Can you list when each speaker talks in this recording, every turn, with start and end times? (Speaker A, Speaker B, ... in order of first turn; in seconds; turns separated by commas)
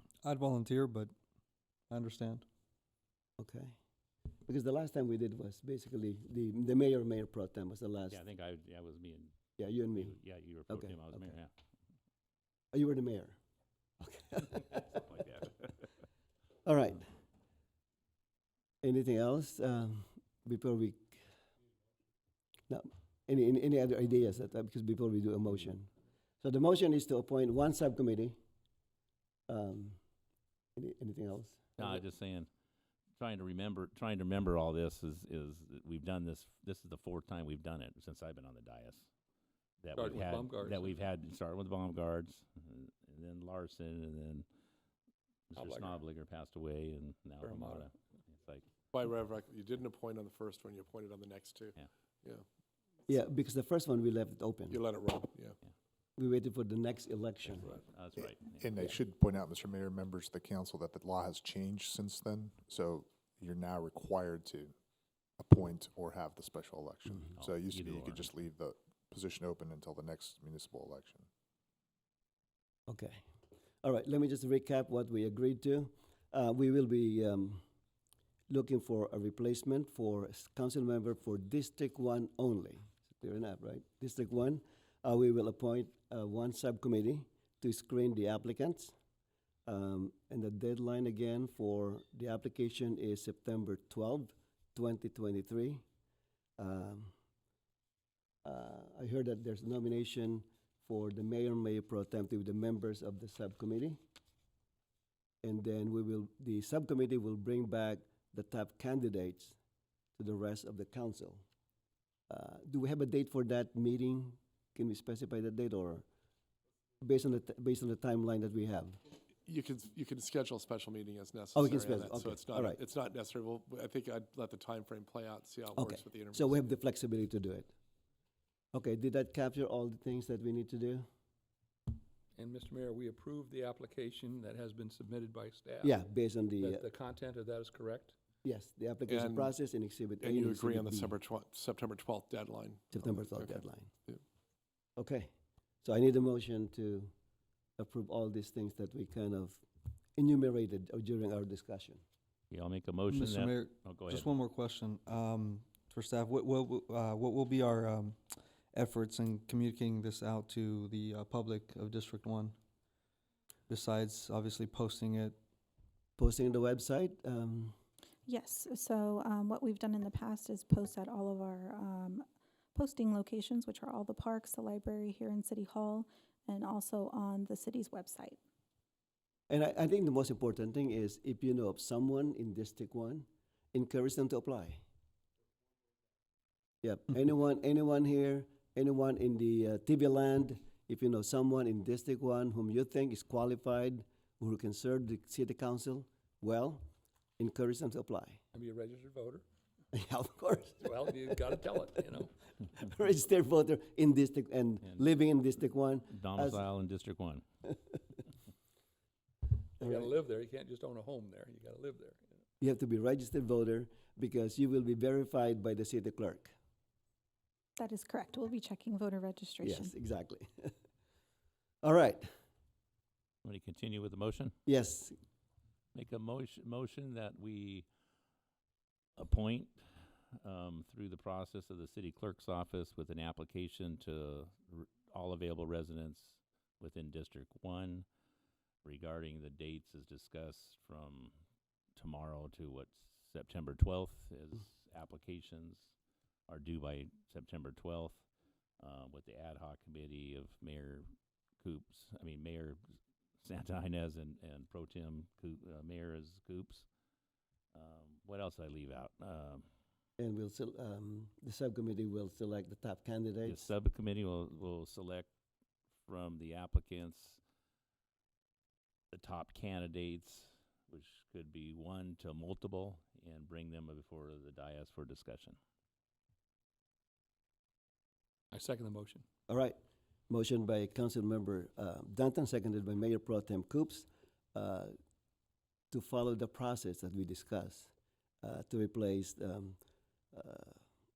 Speaker A: 0.2-1.1, Speaker A: 1.9-2.4, Speaker B: 3.4-3.7, Speaker B: 4.5-8.2, Speaker C: 8.1-9.4, Speaker B: 9.6-10.2, Speaker C: 9.9-11.5, Speaker B: 10.7-11.3, Speaker B: 12.7-13.3, Speaker B: 14.0-15.4, Speaker C: 15.2-15.5, Speaker B: 16.6-17.0, Speaker B: 18.8-21.2, Speaker B: 22.7-25.9, Speaker B: 26.4-28.4, Speaker B: 29.5-30.0, Speaker B: 30.8-32.0, Speaker C: 31.8-32.5, Speaker C: 33.2-39.1, Speaker C: 39.8-44.5, Speaker D: 39.9-40.9, Speaker C: 45.5-48.6, Speaker D: 45.5-46.0, Speaker D: 47.4-47.9, Speaker E: 48.9-52.4, Speaker B: 53.1-54.8, Speaker E: 54.7-55.6, Speaker B: 56.2-57.7, Speaker C: 57.5-58.7, Speaker F: 58.2-64.8, Speaker F: 65.4-71.3, Speaker C: 67.4-68.3, Speaker B: 72.9-73.2, Speaker B: 73.8-77.6, Speaker B: 78.5-88.9, Speaker B: 89.7-95.8, Speaker B: 96.6-97.1, Speaker B: 98.4-104.0, Speaker B: 105.4-109.5, Speaker B: 110.2-111.4, Speaker B: 112.3-116.0, Speaker B: 117.0-119.0, Speaker E: 119.5-126.5, Speaker B: 121.5-122.8, Speaker B: 125.7-127.7, Speaker B: 128.7-131.1, Speaker D: 132.3-136.0, Speaker B: 135.8-136.8, Speaker D: 136.6-138.2, Speaker B: 138.4-141.1, Speaker E: 139.1-139.5, Speaker E: 140.2-143.5, Speaker B: 142.9-143.9, Speaker B: 145.0-145.3, Speaker B: 145.8-147.1, Speaker B: 147.8-149.6, Speaker B: 150.2-152.0, Speaker C: 152.5-154.3, Speaker A: 153.1-158.2, Speaker A: 158.7-162.6, Speaker A: 163.7-165.3, Speaker B: 166.2-167.7, Speaker G: 168.3-178.4, Speaker B: 179.5-184.8, Speaker B: 186.8-196.8, Speaker B: 197.4-198.4, Speaker D: 198.5-199.4, Speaker B: 199.9-201.0, Speaker D: 200.8-202.3, Speaker B: 202.8-206.6, Speaker C: 206.1-207.4, Speaker B: 209.8-210.1, Speaker D: 209.8-212.3, Speaker B: 212.6-216.5, Speaker G: 217.8-219.9, Speaker B: 219.6-220.7, Speaker B: 221.8-222.3, Speaker C: 223.4-224.5, Speaker B: 224.7-225.2, Speaker C: 225.9-227.8, Speaker C: 229.2-229.7, Speaker C: 230.4-238.0, Speaker C: 238.8-241.3, Speaker C: 241.9-245.9, Speaker C: 246.5-248.2, Speaker C: 248.8-251.0, Speaker C: 251.6-252.8, Speaker C: 253.4-256.9, Speaker C: 257.7-259.6, Speaker B: 260.2-263.7, Speaker C: 263.4-265.3, Speaker C: 266.0-267.4, Speaker C: 269.1-275.6, Speaker D: 278.5-279.2, Speaker B: 279.5-279.8, Speaker B: 280.3-284.9, Speaker B: 285.9-287.9, Speaker B: 288.4-289.8, Speaker B: 290.3-290.8